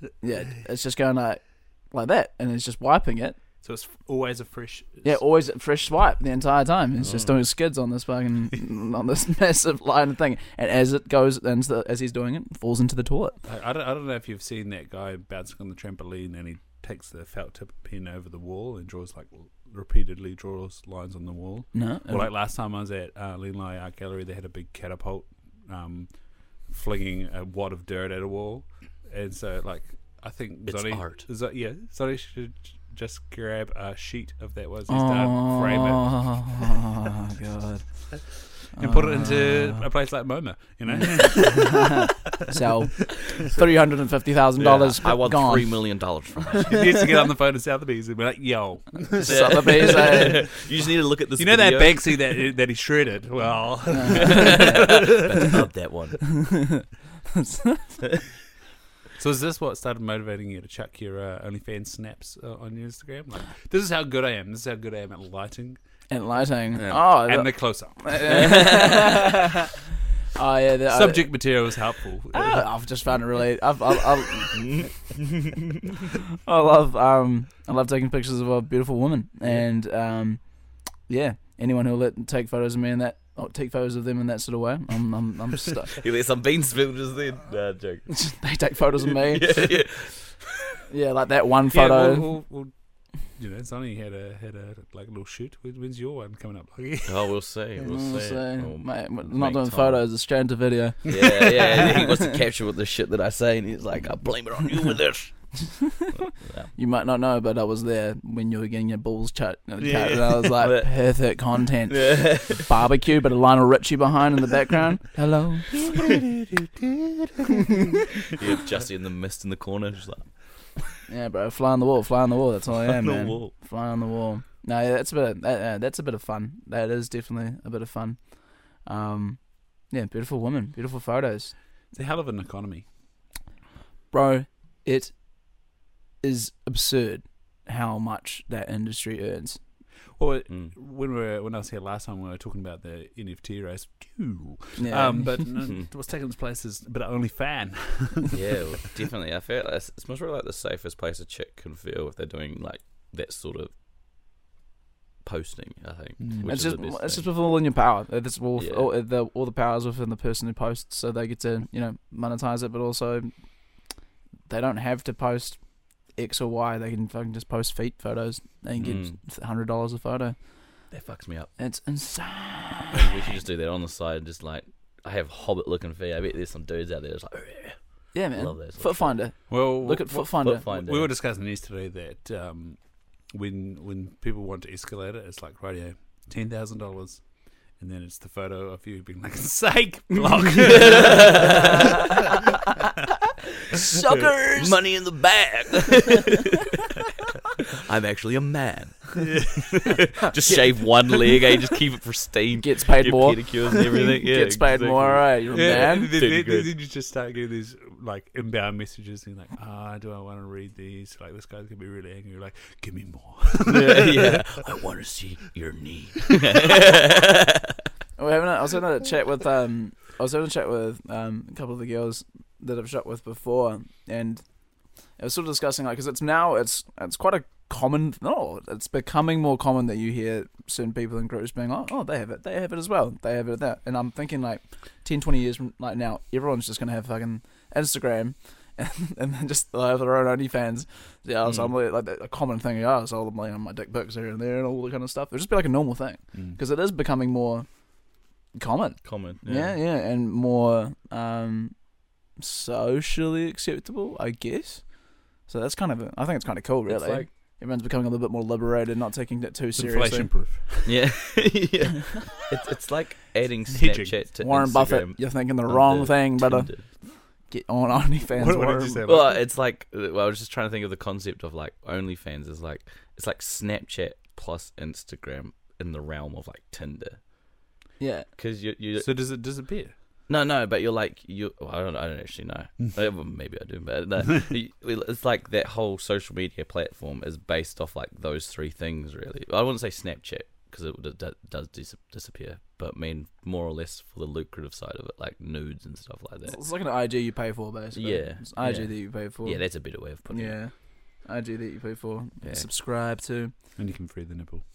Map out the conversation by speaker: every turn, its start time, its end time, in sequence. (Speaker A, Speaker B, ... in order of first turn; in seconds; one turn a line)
Speaker A: 0.2-3.4
Speaker B: 3.6-5.2
Speaker A: 5.0-13.4
Speaker C: 7.0-7.3
Speaker B: 13.4-36.4
Speaker A: 21.7-22.3
Speaker C: 30.7-31.3
Speaker A: 34.9-39.9
Speaker B: 38.7-42.5
Speaker A: 40.9-45.9
Speaker C: 44.6-46.8
Speaker B: 46.6-50.6
Speaker A: 49.2-50.5
Speaker C: 49.2-52.1
Speaker B: 51.4-55.6
Speaker A: 53.9-55.6
Speaker C: 54.1-56.2
Speaker A: 56.2-58.1
Speaker B: 59.2-65.8
Speaker A: 66.1-69.7
Speaker B: 66.8-68.7
Speaker C: 68.2-69.2
Speaker A: 70.3-71.6
Speaker B: 70.9-72.7
Speaker A: 72.3-74.7
Speaker C: 74.5-75.9
Speaker A: 76.5-86.0
Speaker C: 85.9-88.2
Speaker A: 88.1-89.8
Speaker C: 89.0-90.8
Speaker A: 90.9-92.3
Speaker B: 91.7-92.7
Speaker B: 93.2-97.3
Speaker C: 97.1-100.0
Speaker A: 97.8-102.4
Speaker C: 101.1-105.4
Speaker A: 105.5-115.9
Speaker C: 106.2-106.7
Speaker B: 109.8-110.6
Speaker C: 110.6-110.9
Speaker C: 111.9-112.7
Speaker B: 115.7-117.8
Speaker C: 118.3-120.3
Speaker A: 121.0-128.3
Speaker C: 122.7-123.5
Speaker A: 128.8-131.6
Speaker B: 131.9-132.8
Speaker A: 134.1-135.1
Speaker A: 136.2-139.6
Speaker B: 140.2-148.9
Speaker A: 144.8-145.5
Speaker C: 148.3-153.7
Speaker C: 155.2-157.3
Speaker B: 156.2-156.6
Speaker A: 156.4-163.3
Speaker C: 158.6-158.9
Speaker A: 164.5-170.4
Speaker C: 168.8-169.2
Speaker C: 170.9-171.5
Speaker A: 171.6-173.2
Speaker C: 172.9-177.8
Speaker A: 178.1-180.7
Speaker C: 178.3-179.2
Speaker B: 179.5-192.2
Speaker C: 180.4-181.1
Speaker C: 190.6-192.1
Speaker A: 193.7-194.8
Speaker C: 194.5-197.0
Speaker C: 197.7-206.7
Speaker B: 199.2-200.0
Speaker A: 201.1-201.4
Speaker A: 202.6-206.2
Speaker B: 205.5-214.6
Speaker C: 213.7-217.9
Speaker A: 218.2-224.4
Speaker A: 225.2-247.8
Speaker C: 241.4-241.7
Speaker B: 246.3-246.6
Speaker A: 248.6-251.8
Speaker C: 249.0-249.8
Speaker A: 252.4-260.4
Speaker C: 256.9-257.3
Speaker B: 259.8-261.1
Speaker C: 260.9-266.9
Speaker B: 263.7-264.2
Speaker A: 264.4-269.1
Speaker B: 268.4-269.4
Speaker C: 269.1-277.2
Speaker A: 278.0-278.3
Speaker C: 278.4-279.1
Speaker B: 279.0-279.9
Speaker C: 280.3-296.6
Speaker A: 296.4-303.5
Speaker C: 297.9-300.6
Speaker C: 302.4-302.7
Speaker B: 303.8-304.6